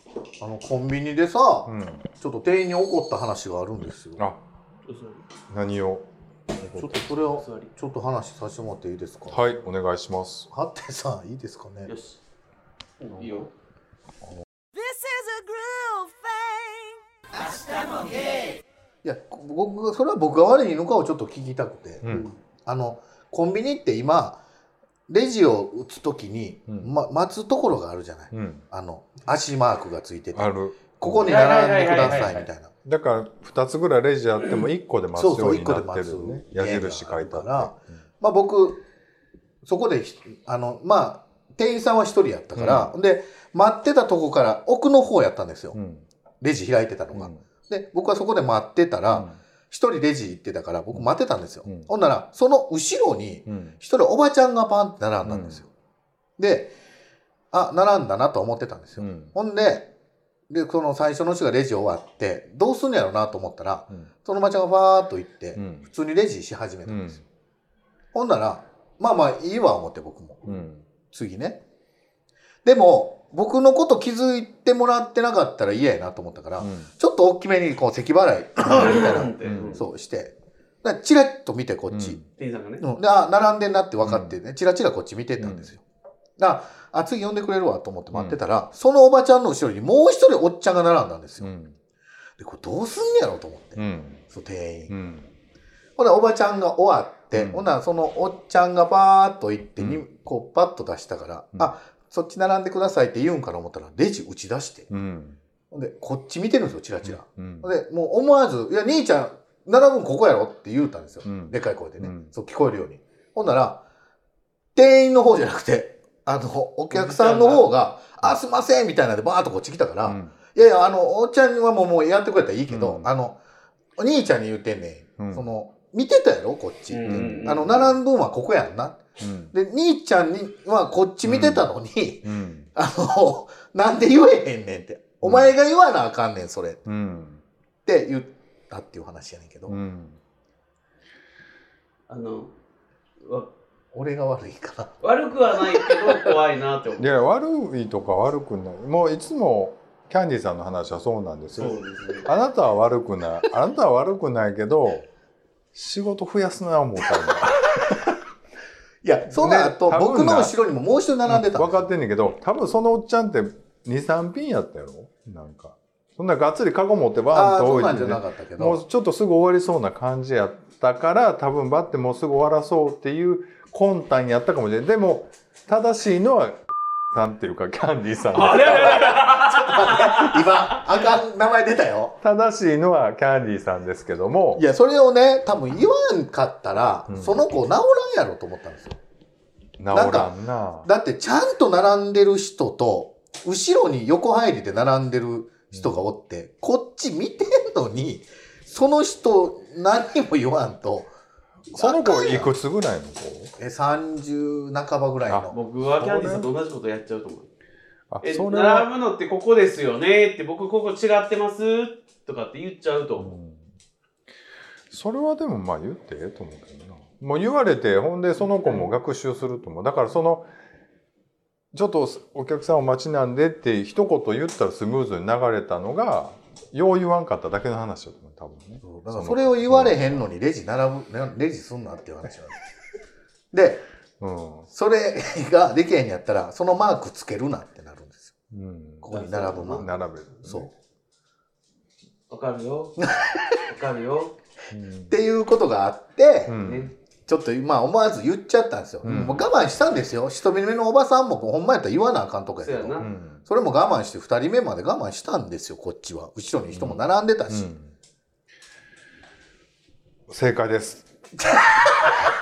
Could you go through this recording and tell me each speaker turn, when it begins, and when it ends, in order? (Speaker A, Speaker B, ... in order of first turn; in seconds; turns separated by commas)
Speaker A: 0.4-4.3, Speaker B: 1.6-2.0, Speaker C: 4.9-5.3, Speaker B: 5.5-6.1, Speaker A: 6.5-9.4, Speaker C: 6.8-7.7, Speaker B: 9.3-10.5, Speaker A: 10.5-11.9, Speaker C: 11.9-12.2, Speaker C: 13.0-13.5, Speaker A: 13.2-13.5, Speaker D: 14.7-18.6, Speaker A: 19.0-22.1, Speaker B: 22.0-22.3, Speaker C: 22.1-22.4, Speaker A: 22.6-24.4, Speaker A: 25.1-32.7, Speaker B: 28.3-28.6, Speaker B: 30.3-38.0, Speaker C: 31.2-32.4, Speaker A: 35.1-38.8, Speaker A: 39.6-45.8, Speaker B: 42.5-42.9, Speaker B: 45.7-46.0, Speaker A: 46.4-55.7, Speaker B: 47.1-47.4, Speaker B: 49.1-49.4, Speaker B: 53.5-53.7, Speaker B: 55.2-55.6, Speaker A: 56.4-56.7, Speaker A: 57.5-59.9, Speaker B: 59.0-59.3, Speaker A: 60.5-67.2, Speaker B: 65.5-65.9, Speaker B: 66.9-67.2, Speaker A: 68.1-70.4, Speaker B: 70.5-70.8, Speaker A: 71.1-71.6, Speaker A: 72.6-82.2, Speaker B: 76.6-76.9, Speaker C: 78.7-79.8, Speaker B: 79.4-79.8, Speaker B: 81.9-82.2, Speaker C: 82.4-82.8, Speaker A: 82.8-85.8, Speaker B: 84.0-84.4, Speaker B: 85.4-85.7, Speaker A: 86.4-91.5, Speaker B: 88.1-88.4, Speaker B: 91.4-91.8, Speaker A: 92.4-94.9, Speaker B: 93.8-94.2, Speaker B: 94.9-95.3, Speaker A: 96.0-104.9, Speaker B: 97.3-97.7, Speaker B: 99.8-100.0, Speaker B: 104.9-105.4, Speaker A: 105.7-113.8, Speaker B: 107.0-107.7, Speaker B: 111.2-112.3, Speaker A: 114.7-123.4, Speaker C: 116.9-117.7, Speaker B: 120.0-120.3, Speaker B: 122.7-123.1, Speaker A: 124.0-136.8, Speaker B: 125.2-125.5, Speaker C: 126.9-127.9, Speaker B: 127.1-127.8, Speaker B: 129.2-129.5, Speaker B: 131.2-131.7, Speaker B: 132.2-132.7, Speaker B: 135.2-135.5, Speaker B: 136.8-137.4, Speaker A: 137.8-139.8, Speaker B: 139.7-140.2, Speaker C: 142.1-142.5, Speaker C: 143.2-143.5, Speaker A: 143.9-145.0, Speaker C: 145.0-147.1, Speaker A: 145.8-146.1, Speaker B: 147.0-155.1, Speaker C: 151.5-152.3, Speaker B: 155.7-158.2, Speaker A: 159.0-161.9, Speaker B: 159.3-160.5, Speaker B: 161.2-179.2, Speaker A: 167.3-168.8, Speaker C: 178.3-180.5, Speaker A: 178.8-182.2, Speaker B: 182.2-184.7, Speaker A: 184.5-189.0, Speaker B: 187.1-187.4, Speaker B: 189.8-190.9, Speaker A: 189.9-190.3, Speaker A: 190.8-201.1, Speaker A: 201.7-202.5, Speaker B: 201.7-203.5, Speaker A: 203.6-205.5, Speaker B: 205.3-206.5, Speaker C: 205.5-207.5, Speaker B: 208.1-208.9, Speaker C: 208.2-213.3, Speaker B: 213.2-213.7, Speaker B: 214.9-220.5, Speaker C: 218.4-218.9, Speaker B: 221.7-230.3, Speaker A: 228.8-232.7, Speaker A: 233.5-233.8, Speaker B: 234.2-234.7, Speaker A: 234.7-238.3, Speaker B: 238.5-240.7, Speaker A: 239.0-239.9, Speaker C: 239.1-239.9, Speaker A: 240.4-240.7, Speaker C: 242.3-243.0, Speaker A: 243.0-243.6, Speaker C: 243.6-244.3, Speaker B: 244.7-245.2, Speaker A: 245.1-246.6, Speaker B: 246.4-246.9, Speaker C: 246.6-246.9, Speaker A: 247.3-257.7, Speaker B: 249.0-249.5, Speaker C: 252.6-253.1, Speaker B: 253.0-253.4, Speaker B: 256.7-257.9, Speaker B: 260.3-261.1